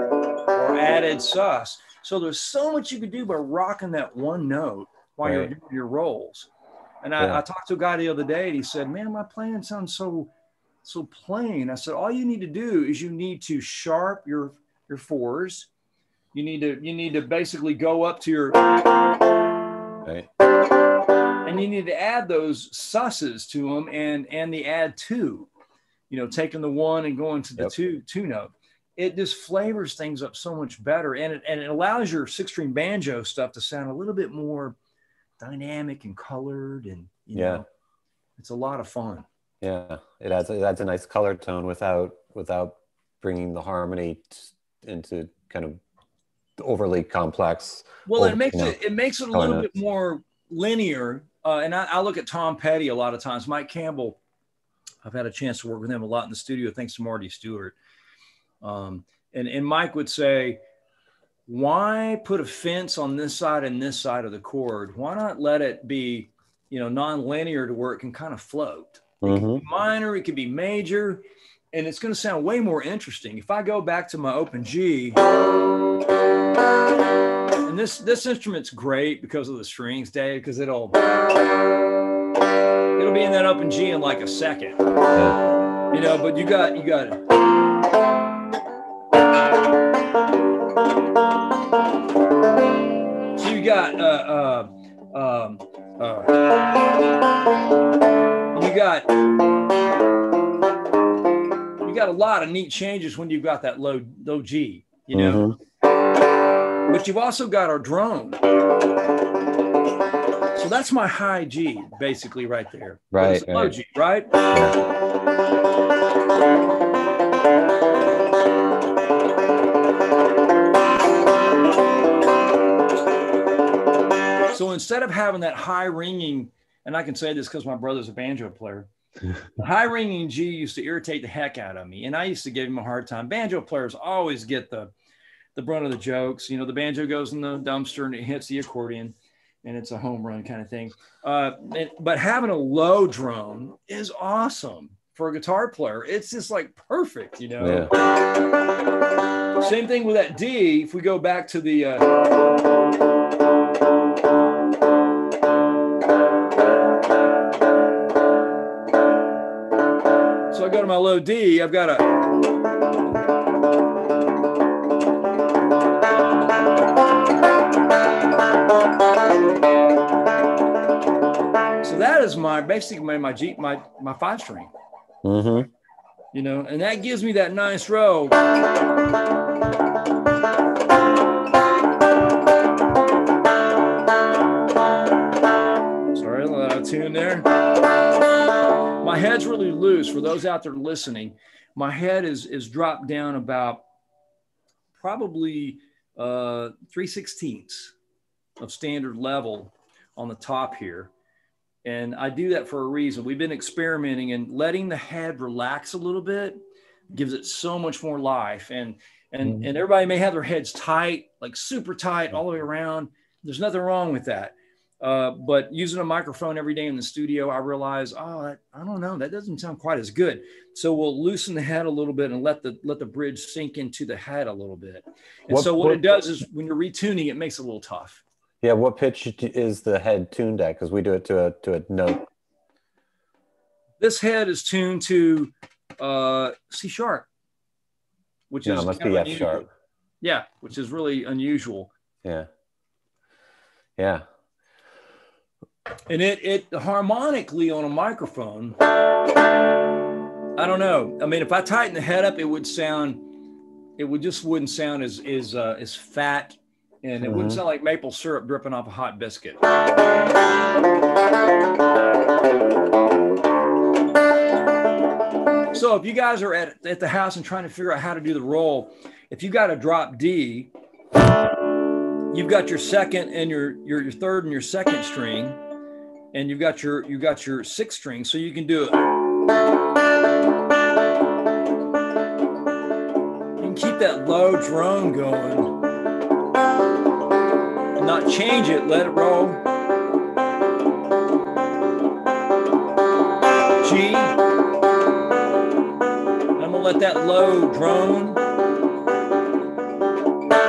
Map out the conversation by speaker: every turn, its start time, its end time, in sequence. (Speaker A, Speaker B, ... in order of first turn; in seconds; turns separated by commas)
Speaker A: 0.5-6.5, Speaker B: 5.2-5.5, Speaker A: 7.0-10.3, Speaker A: 10.8-15.7, Speaker A: 16.3-18.6, Speaker A: 21.4-25.5, Speaker A: 26.1-34.8, Speaker A: 35.4-37.6, Speaker B: 37.3-37.6, Speaker A: 38.4-39.2, Speaker B: 39.6-45.8, Speaker B: 46.6-48.8, Speaker A: 48.0-54.2, Speaker B: 49.3-49.7, Speaker A: 55.0-57.7, Speaker A: 58.6-60.6, Speaker A: 61.5-75.2, Speaker B: 69.2-69.6, Speaker A: 77.6-81.0, Speaker A: 83.0-84.8, Speaker A: 85.9-87.2, Speaker A: 93.3-96.3, Speaker A: 98.5-99.1, Speaker A: 101.8-105.5, Speaker B: 105.1-105.5, Speaker A: 106.9-108.4, Speaker A: 110.5-114.3, Speaker B: 113.1-113.8, Speaker A: 124.5-128.9, Speaker A: 129.6-134.9, Speaker A: 135.5-147.9, Speaker B: 147.6-147.9, Speaker A: 149.6-152.1, Speaker A: 160.5-162.1, Speaker A: 171.8-174.7, Speaker B: 175.2-175.7, Speaker A: 176.3-178.4, Speaker A: 186.1-187.5, Speaker A: 189.0-193.8, Speaker A: 194.9-197.9, Speaker A: 198.6-201.1, Speaker A: 201.8-206.6, Speaker A: 207.1-228.2, Speaker B: 225.5-226.1, Speaker B: 228.6-232.3, Speaker A: 234.0-237.3, Speaker A: 238.5-239.7, Speaker B: 238.6-239.7, Speaker A: 240.2-241.9, Speaker B: 244.0-244.2, Speaker A: 246.1-248.8, Speaker A: 250.6-253.3, Speaker A: 254.0-259.6, Speaker B: 257.2-257.6, Speaker A: 265.7-270.7, Speaker A: 272.3-275.6, Speaker A: 276.3-279.1, Speaker A: 283.6-285.8, Speaker A: 288.0-289.6, Speaker A: 293.8-294.4, Speaker A: 296.6-298.4